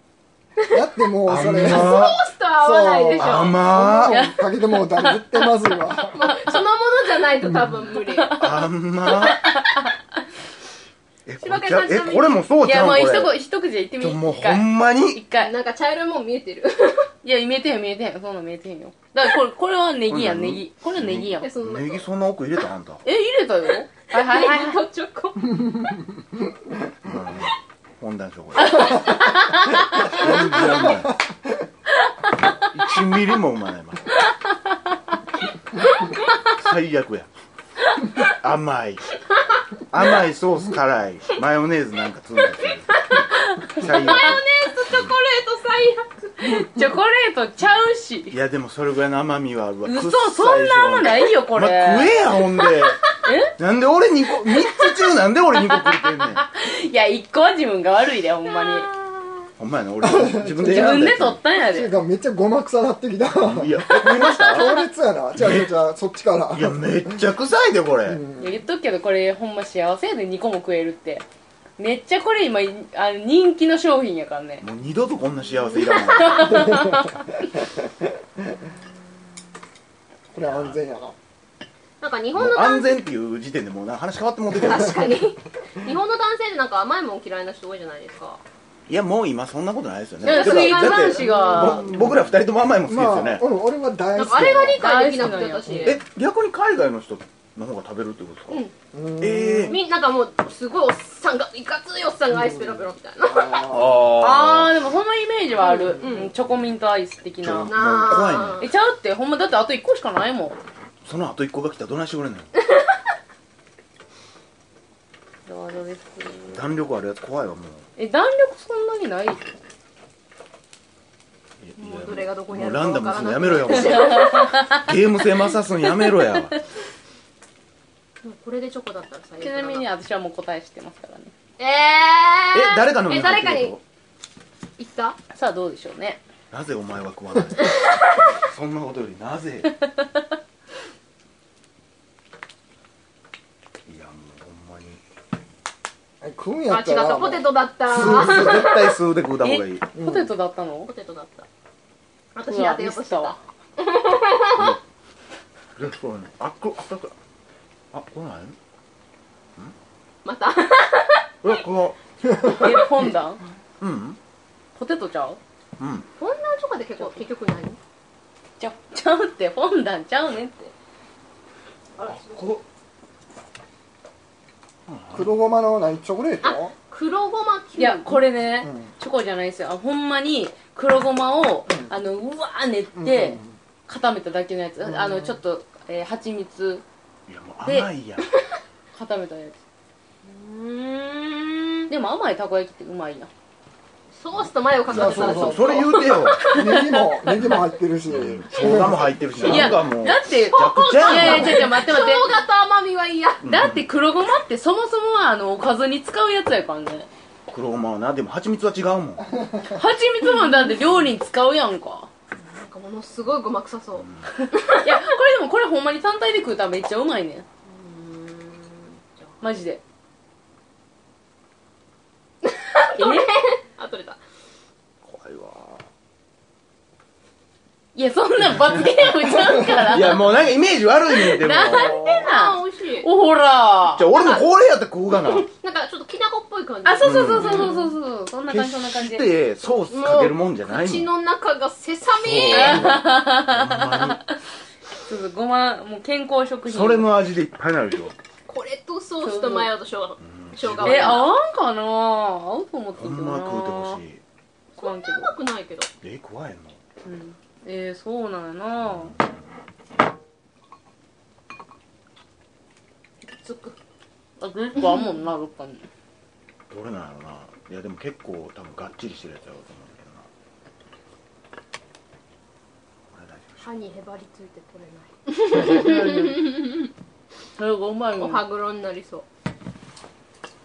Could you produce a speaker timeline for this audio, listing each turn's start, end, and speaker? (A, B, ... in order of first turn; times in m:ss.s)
0:00.7-0:02.0 A
0:01.3-0:02.2 B
0:01.8-0:03.5 C
0:02.6-0:06.2 A
0:03.2-0:04.2 B
0:04.0-0:06.6 D
0:06.1-0:08.4 C
0:07.4-0:07.8 A
0:08.0-0:09.9 D
0:08.4-0:09.5 B
0:11.3-0:13.3 B
0:11.4-0:12.5 C
0:12.6-0:15.6 D
0:14.0-0:15.3 B
0:15.4-0:16.7 C
0:17.2-0:21.5 D
0:20.1-0:23.0 B
0:21.4-0:22.0 C
0:23.0-0:24.8 D
0:24.1-0:25.4 C
0:25.4-0:26.7 A
0:27.0-0:29.0 B
0:28.6-0:30.8 D
0:30.0-0:31.1 B
0:30.3-0:31.3 A
0:32.7-0:34.1 B
0:34.4-0:34.8 D
0:36.5-0:37.3 B
0:38.2-0:39.1 B
0:39.9-0:45.2 B
0:43.7-0:44.1 D
0:44.1-0:46.5 C
0:46.4-0:48.4 D
0:48.3-0:53.0 B
0:49.8-0:52.2 D
0:53.2-0:53.5 D
0:53.6-0:56.4 B
0:55.6-0:58.9 D
0:59.6-1:01.4 B
1:00.0-1:07.2 A
1:00.6-1:01.9 D
1:03.4-1:04.8 B
1:04.0-1:04.8 D
1:05.4-1:05.7 B
1:06.5-1:08.2 B
1:08.0-1:08.6 A
1:08.4-1:11.2 D
1:11.8-1:14.6 D
1:14.6-1:16.5 B
1:15.9-1:17.1 D
1:16.3-1:18.7 A
1:20.3-1:21.2 A
1:20.4-1:20.8 B
1:22.0-1:23.0 C
1:22.4-1:25.1 B
1:24.7-1:28.4 C
1:28.9-1:33.4 B
1:30.2-1:32.1 D
1:30.3-1:31.9 C
1:31.7-1:32.3 A
1:32.8-1:34.9 A
1:34.2-1:35.9 C
1:34.7-1:35.8 D
1:35.7-1:36.0 A
1:35.8-1:38.6 B
1:38.9-1:39.8 A
1:39.2-1:39.8 B
1:39.7-1:43.6 C
1:42.3-1:44.1 A
1:43.7-1:44.8 B
1:44.1-1:47.7 D
1:45.7-1:46.3 C
1:46.0-1:46.2 A
1:47.4-1:48.7 B
1:47.7-1:48.7 C
1:48.6-1:50.6 D
1:51.0-1:52.5 B
1:55.5-1:56.7 D
1:56.5-1:57.9 B
1:58.0-1:59.5 D
2:01.6-2:06.6 B
2:01.8-2:04.6 C
2:03.7-2:04.9 D
2:08.2-2:09.9 C
2:09.4-2:11.3 D
2:11.6-2:13.7 C
2:12.5-2:13.8 B
2:14.8-2:15.2 C
2:15.3-2:16.2 D
2:16.5-2:17.8 B
2:18.4-2:19.7 B
2:23.9-2:25.0 B
2:26.2-2:28.6 A
2:26.7-2:28.9 C
2:27.9-2:29.9 B
2:29.4-2:30.9 D
2:30.0-2:30.4 A
2:30.9-2:31.5 C
2:32.4-2:34.7 C
2:32.4-2:33.4 D
2:35.8-2:37.2 B
2:37.9-2:38.6 B
2:40.2-2:41.6 C
2:41.4-2:42.0 B
2:42.2-2:43.2 A
2:42.4-2:43.4 D
2:43.8-2:44.2 B
2:44.8-2:45.4 D
2:45.8-2:46.1 B
2:46.2-2:47.8 C
2:47.0-2:47.3 D
2:48.6-2:50.7 D
2:52.0-2:52.5 C
2:52.1-2:52.6 B
2:54.9-2:55.3 B
2:55.1-2:56.7 A
2:56.4-2:58.2 C
2:57.8-3:06.8 D
2:58.6-2:59.0 A
3:01.7-3:02.0 A
3:02.9-3:03.6 A
3:04.8-3:05.4 A
3:07.3-3:08.3 B
3:07.6-3:07.9 D
3:09.0-3:09.6 D
3:10.2-3:11.8 C
3:11.9-3:13.3 D
3:14.1-3:16.7 C
3:14.9-3:16.4 B
3:14.9-3:15.9 A
3:16.4-3:17.1 D
3:16.5-3:19.8 A
3:17.3-3:21.8 B
3:19.4-3:22.4 D
3:20.5-3:23.4 C
3:23.4-3:23.9 B
3:23.5-3:27.1 D
3:27.5-3:29.2 B
3:29.2-3:29.8 A
3:29.7-3:32.1 D
3:32.4-3:34.9 C
3:34.0-3:34.3 B
3:34.4-3:37.4 D
3:37.7-3:39.4 C
3:39.4-3:39.8 D
3:42.4-3:44.2 C
3:43.0-3:43.4 D
3:45.0-3:45.8 B
3:48.0-3:50.3 D
3:48.6-3:52.0 B
3:51.4-3:54.1 D
3:51.7-3:53.1 C
3:53.8-3:55.5 B
3:54.1-3:54.4 C
3:55.3-3:57.8 C
3:56.8-3:59.3 D
3:57.0-3:57.8 B
3:58.5-4:01.2 B
3:59.9-4:02.8 C
4:02.1-4:04.2 B
4:02.5-4:04.2 D
4:05.0-4:07.1 D
4:06.7-4:08.2 B
4:08.5-4:11.3 C
4:09.2-4:09.7 D
4:10.2-4:11.3 B
4:10.8-4:14.0 D
4:13.0-4:14.2 B
4:14.8-4:15.3 D
4:14.8-4:15.9 C
4:16.0-4:16.8 B
4:17.0-4:19.2 D
4:18.8-4:19.2 B
4:23.3-4:23.8 C
4:24.4-4:25.9 D
4:26.7-4:30.3 B
4:33.1-4:33.9 B
4:33.6-4:36.9 C
4:35.5-4:36.7 D
4:37.6-4:38.5 D
4:38.1-4:39.3 C